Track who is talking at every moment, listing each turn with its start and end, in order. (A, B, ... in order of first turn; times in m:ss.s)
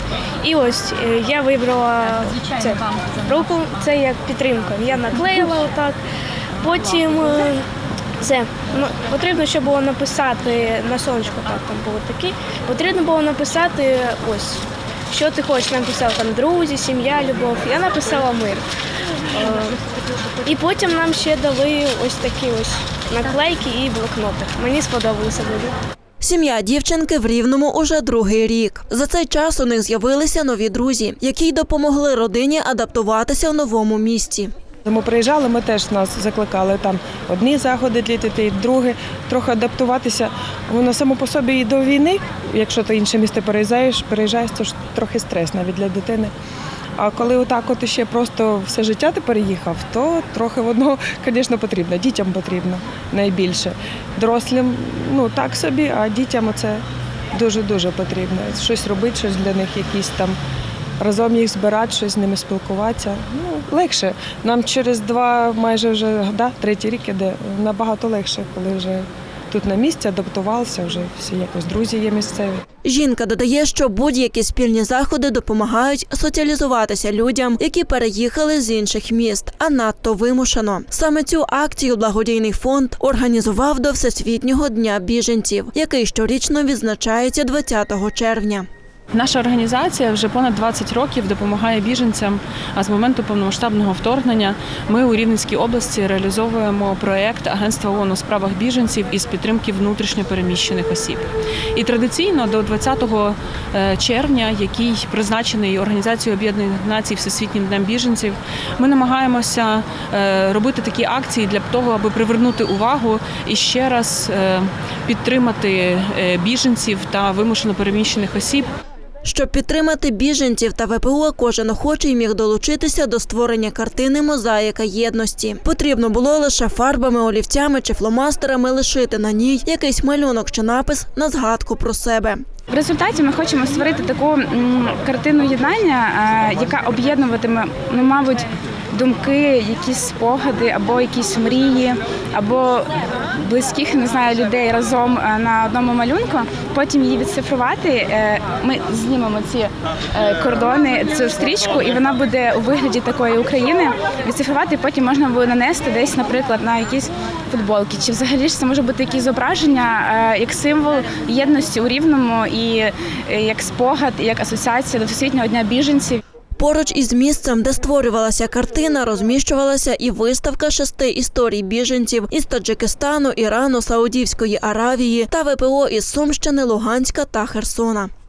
0:00.4-0:06.0 A
0:06.6-0:07.6 A
0:08.2-0:18.6 A
0:19.3-0:19.8 A
0:20.4-0:25.7 A
0:26.2-0:34.5 B
0:34.8-0:46.3 C
0:47.0-0:56.8 C
0:57.3-1:00.4 C
1:01.0-1:12.6 C
1:12.8-1:28.7 B
1:29.1-1:58.7 D
1:59.2-2:12.4 B
2:12.7-2:46.2 E
2:46.6-2:58.1 B